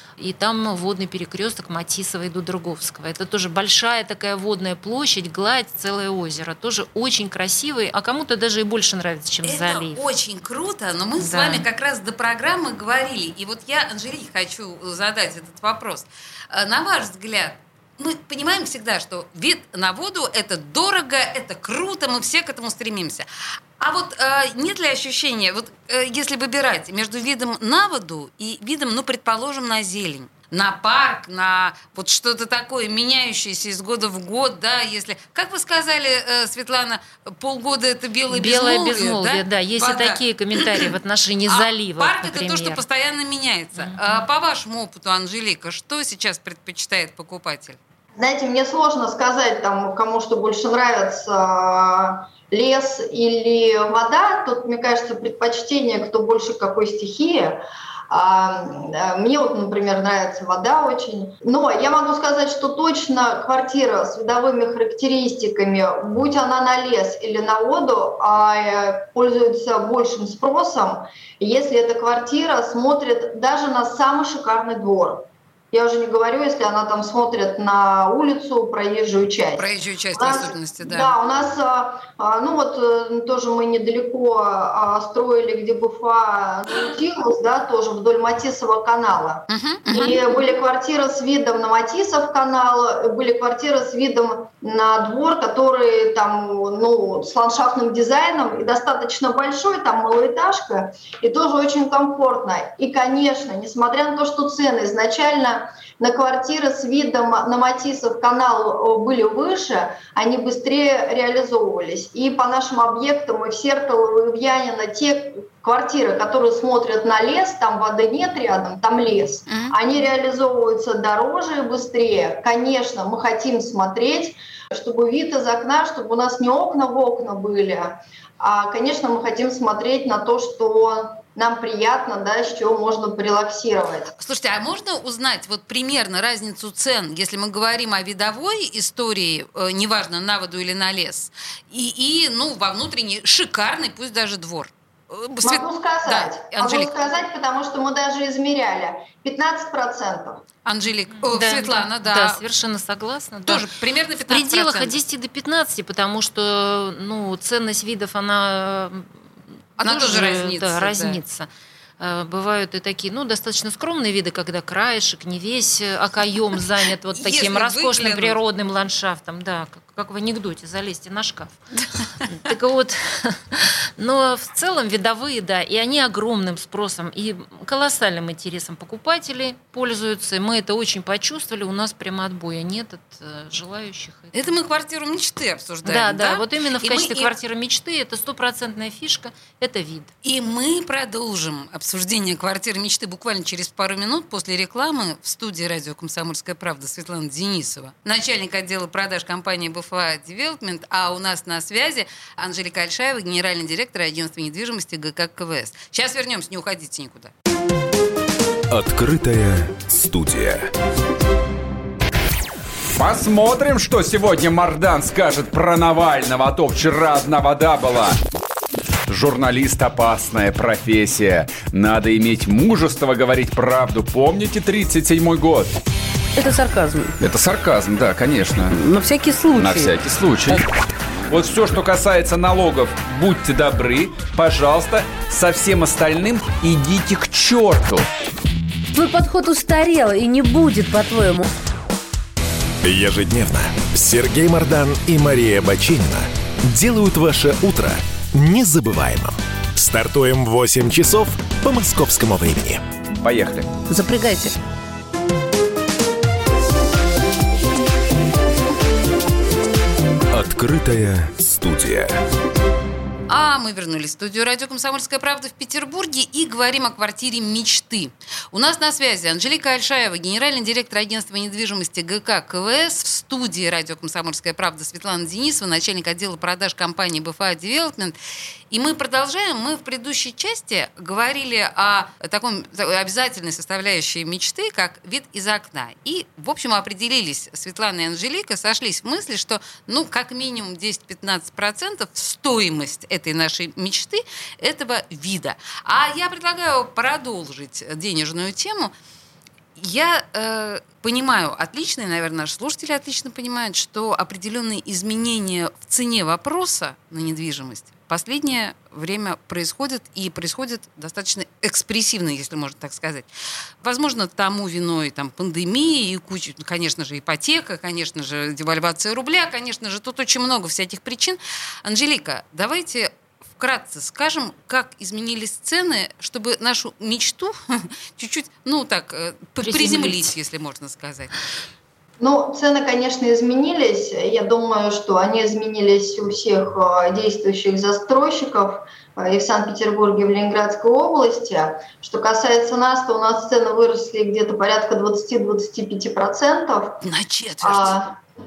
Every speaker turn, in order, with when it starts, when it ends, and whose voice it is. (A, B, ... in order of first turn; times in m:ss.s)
0:00.2-0:10.0 A
0:09.4-0:23.3 B
0:11.2-0:11.7 A
0:23.8-0:40.9 B
0:38.3-0:42.8 A
0:41.5-0:47.8 B
0:43.8-0:44.2 A
0:48.2-2:14.2 C
1:19.6-1:21.1 B
1:29.5-1:30.3 B
1:59.5-1:59.8 B
2:14.2-2:27.0 B
2:25.4-2:30.4 C
2:30.6-2:32.4 B
2:31.3-2:33.7 A
2:33.5-2:35.0 B
2:34.2-2:39.2 A
2:39.8-2:41.2 B
2:39.8-2:41.5 A
2:42.0-2:51.6 A
2:47.1-2:48.4 B
2:52.2-3:04.5 A
3:04.3-3:07.3 B
3:05.8-3:10.1 A
3:10.2-3:27.3 B
3:30.0-3:30.3 D
3:33.0-3:38.2 D
3:39.1-3:45.8 D
3:46.4-3:47.2 E
3:47.2-3:48.8 D
3:48.7-3:50.0 E
3:49.5-3:50.6 D
3:51.3-3:58.1 D
3:58.9-4:01.5 E
4:02.8-4:12.8 F
4:13.2-4:13.8 D
4:13.9-4:14.6 E
4:23.3-4:38.2 B
4:38.7-4:58.9 B
4:59.8-5:13.3 B
5:13.8-5:31.4 B
5:29.7-5:30.2 C
5:32.2-5:47.0 C
5:47.0-5:48.0 B
5:47.6-5:48.2 C